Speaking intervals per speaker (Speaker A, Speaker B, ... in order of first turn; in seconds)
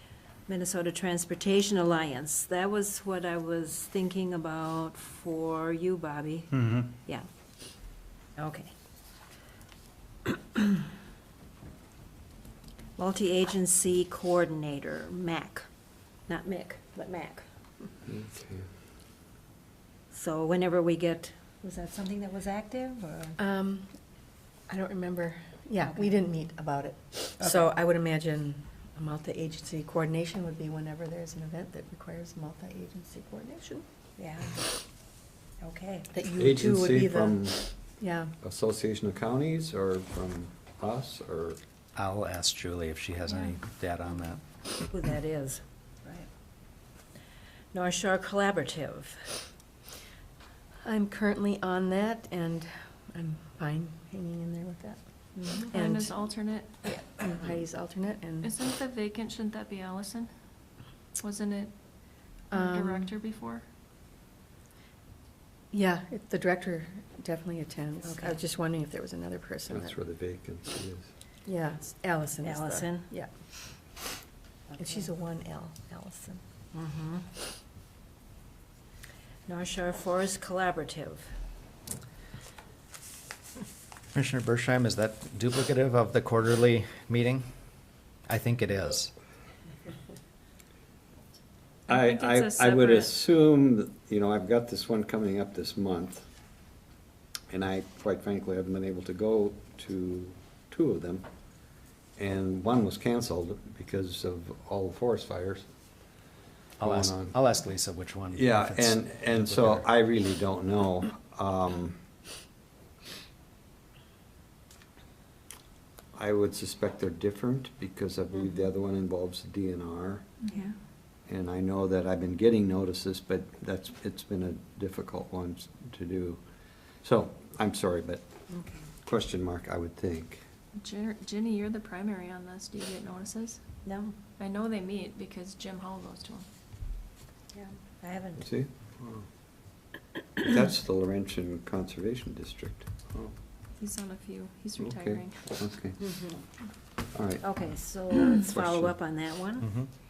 Speaker A: 0.5-7.3, 8.4-8.7, 12.9-15.7, 16.2-17.4, 20.1-23.4, 27.4-27.7, 34.2-34.7, 35.6-36.1, 44.9-46.2, 47.7-49.4, 68.0-68.4, 72.4-73.1, 74.7-75.0, 76.7-77.2, 79.5-81.3, 128.5-128.9, 133.8-134.2, 137.5-138.5, 146.0-146.4, 147.4-149.8
Speaker B: 18.1-18.7, 36.4-37.6, 38.4-41.6, 69.7-71.1, 91.9-96.3, 97.5-101.3, 102.2-105.6, 106.8-107.3, 108.3-112.0, 116.1-120.3, 121.3-126.4, 127.0-128.3, 129.0-130.4, 138.3-138.7, 140.4-143.2, 144.8-146.0, 147.1-147.5, 148.5-148.9
Speaker C: 23.4-23.9, 24.7-33.8, 36.1-38.3, 50.8-56.3, 56.8-58.5, 62.5-63.1, 65.7-70.0, 71.4-73.3, 74.8-76.4
Speaker D: 42.0-44.4, 84.1-87.5, 88.3-89.1, 106.8-109.9, 149.6-149.9
Speaker E: 55.6-56.7, 58.4-60.3, 61.2-61.7, 62.6-63.6, 91.9-93.2, 120.4-120.7, 130.8-133.6, 134.4-136.5, 143.8-145.6